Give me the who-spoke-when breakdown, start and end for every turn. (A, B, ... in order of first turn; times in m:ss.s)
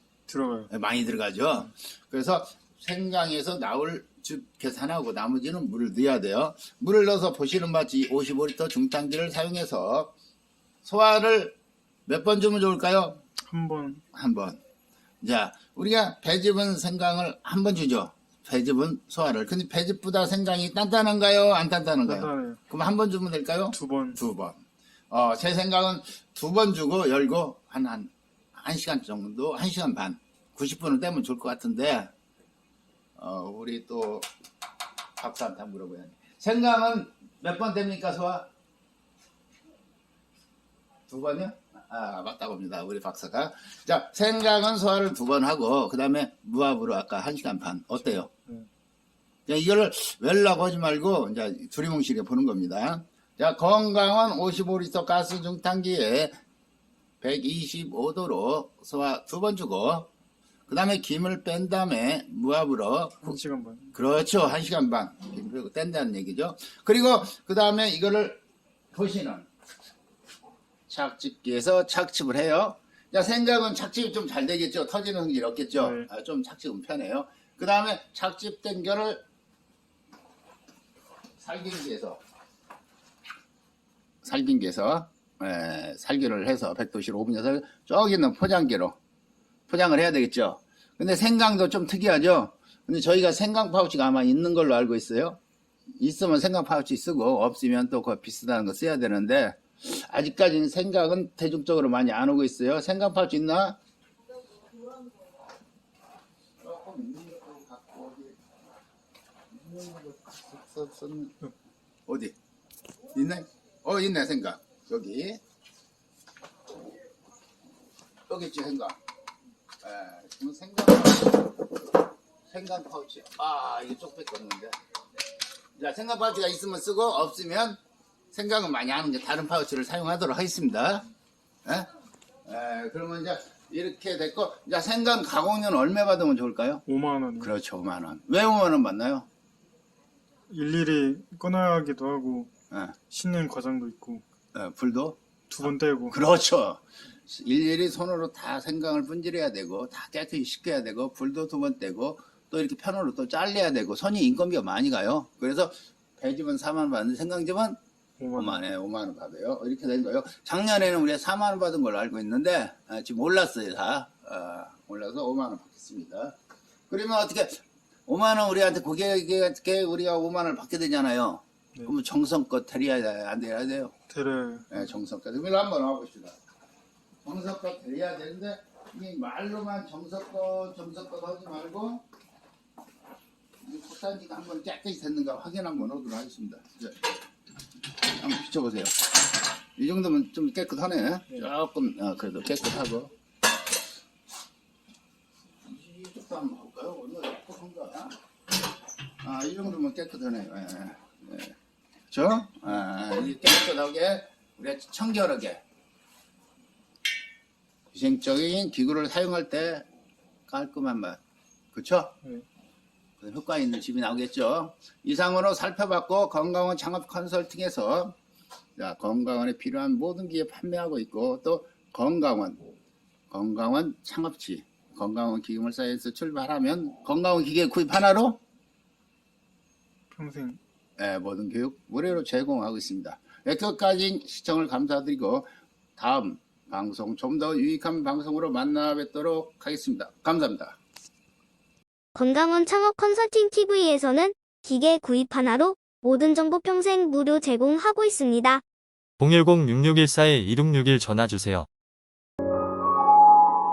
0:00.3-0:00.7 A
0:00.7-0:10.1 B
0:10.8-0:13.2 B
0:13.4-0:14.0 A
0:14.1-0:14.6 B
0:15.2-0:32.1 B
0:22.0-0:22.6 A
0:23.7-0:24.2 A
0:33.2-0:34.3 B
0:35.2-0:38.5 B
0:41.1-0:48.3 B
0:48.0-0:48.7 A
0:49.5-0:56.3 B
0:57.2-1:00.1 B
1:00.7-1:03.4 B
1:03.2-1:03.9 A
1:03.9-1:09.5 B
1:10.9-1:19.2 B
1:15.8-1:16.1 A
1:21.4-1:22.2 B
1:24.2-1:29.0 B
1:29.7-1:35.4 B
1:36.0-1:43.8 B
1:46.6-1:48.4 B
1:49.5-1:51.4 B
1:52.1-1:52.3 B
1:53.1-1:55.4 B
1:58.3-1:59.0 B
1:59.8-2:01.7 B
2:02.5-2:04.8 B
2:05.8-2:07.8 B
2:08.3-2:11.1 B
2:12.4-2:16.8 B
2:16.8-2:17.5 A
2:17.4-2:19.3 B
2:20.5-2:22.5 A
2:22.7-2:23.0 B
2:23.1-2:24.2 A
2:24.5-2:25.2 B
2:25.5-2:26.2 A
2:26.1-2:37.8 B
2:38.2-2:38.6 A
2:38.4-2:46.3 B
2:46.9-2:53.9 B
2:54.1-2:54.8 A
2:54.7-2:56.4 B
2:57.2-3:02.0 B
3:03.6-3:07.0 B
3:08.0-3:09.0 B
3:09.8-3:13.1 B
3:15.6-3:18.1 B
3:19.2-3:21.5 B
3:22.1-3:25.6 B
3:27.9-3:29.8 B
3:30.5-3:31.2 B
3:31.7-3:32.2 B
3:33.2-3:38.2 B
3:38.8-3:42.7 B
3:43.3-3:48.4 B
3:50.1-3:50.6 A
3:51.0-4:00.8 B
4:02.1-4:08.6 C
4:09.2-4:11.7 D